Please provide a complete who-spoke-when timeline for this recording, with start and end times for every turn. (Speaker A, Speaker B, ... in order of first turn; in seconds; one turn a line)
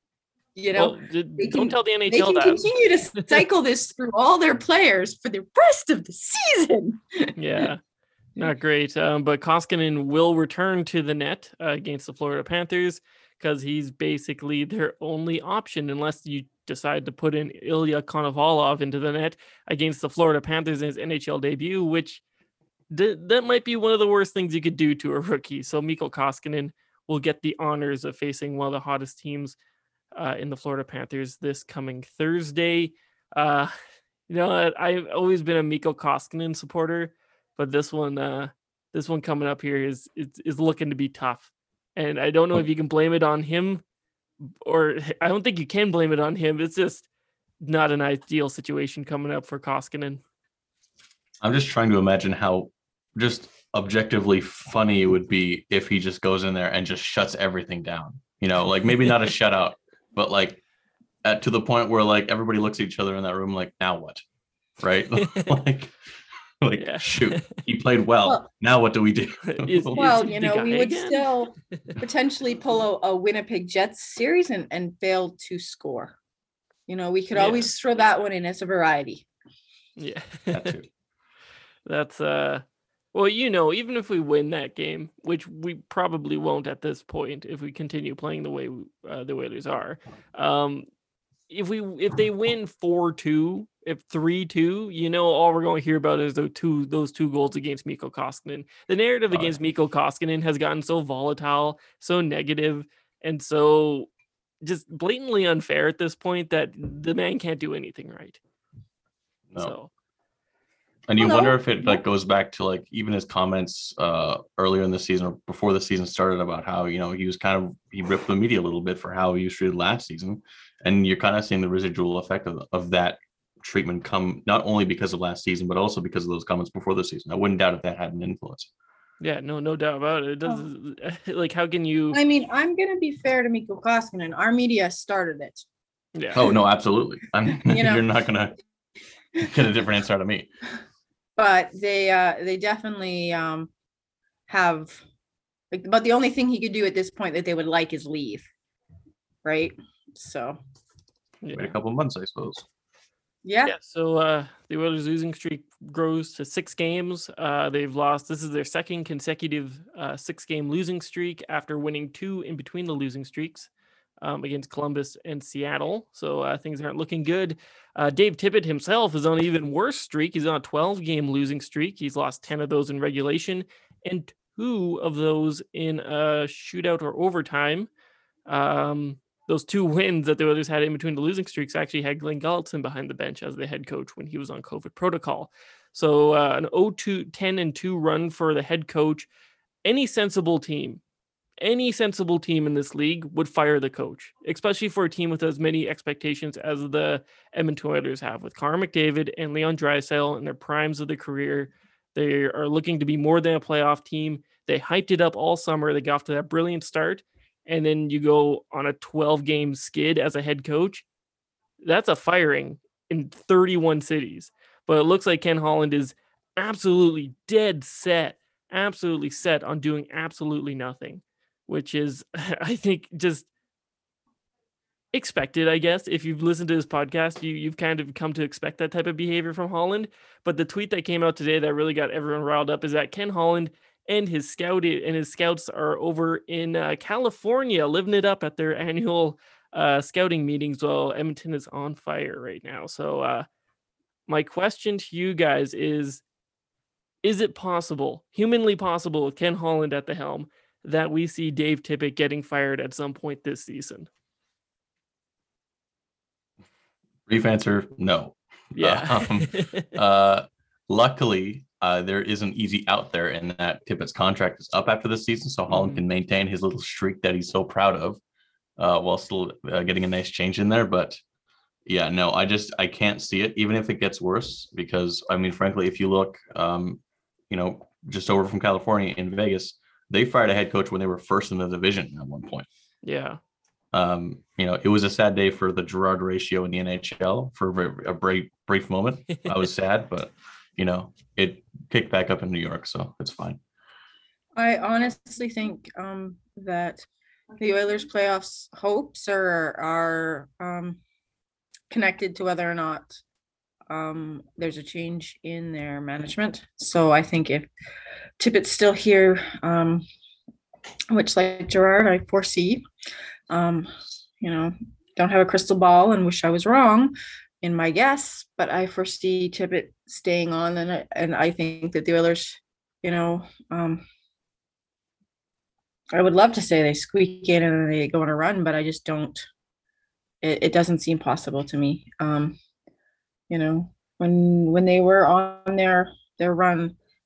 Speaker A: 0.6-7.3
Speaker B: 0.8-3.4
Speaker B: 7.4-7.8
Speaker B: 8.3-22.2
Speaker B: 22.9-29.6
Speaker B: 30.1-33.7
Speaker B: 34.3-43.8
Speaker B: 44.4-47.0
Speaker B: 47.6-50.2
Speaker C: 51.4-60.6
Speaker C: 61.2-64.2
Speaker C: 64.8-65.9
Speaker B: 65.2-65.5
Speaker C: 66.6-70.2
Speaker B: 66.8-67.6
Speaker B: 69.4-71.9
Speaker A: 69.9-76.1
Speaker A: 76.9-79.2
Speaker B: 77.3-77.7
Speaker B: 80.0-80.7
Speaker C: 80.5-80.9
Speaker B: 81.8-90.8
Speaker B: 91.5-104.1
Speaker C: 99.3-99.5
Speaker B: 104.6-108.4
Speaker B: 109.6-109.9
Speaker C: 111.1-128.7
Speaker A: 111.2-112.0
Speaker B: 129.2-132.2
Speaker A: 132.1-135.6
Speaker B: 136.1-136.4
Speaker C: 136.3-138.5
Speaker A: 137.6-138.0
Speaker C: 139.4-140.5
Speaker A: 141.4-143.7
Speaker A: 144.5-145.0
Speaker A: 145.7-148.5
Speaker A: 149.4-150.6
Speaker B: 151.4-151.7
Speaker C: 151.5-152.6
Speaker A: 153.4-153.8
Speaker B: 153.7-163.7
Speaker B: 164.2-177.9
Speaker B: 178.5-189.3
Speaker B: 189.8-191.0
Speaker B: 191.6-211.1
Speaker B: 211.8-223.5
Speaker B: 225.1-243.5
Speaker B: 244.3-246.2
Speaker B: 247.2-254.1
Speaker C: 257.3-268.2
Speaker B: 258.7-259.9
Speaker B: 265.7-266.0
Speaker C: 268.8-271.2
Speaker C: 271.9-282.7
Speaker B: 283.0-283.4
Speaker C: 283.9-293.6
Speaker A: 294.6-297.1
Speaker A: 297.6-301.0
Speaker A: 301.9-303.2
Speaker A: 303.9-307.7
Speaker A: 308.4-310.0
Speaker A: 311.1-312.8
Speaker A: 313.5-313.9
Speaker A: 314.4-324.0
Speaker A: 326.1-329.5
Speaker A: 330.4-332.6
Speaker A: 333.5-336.9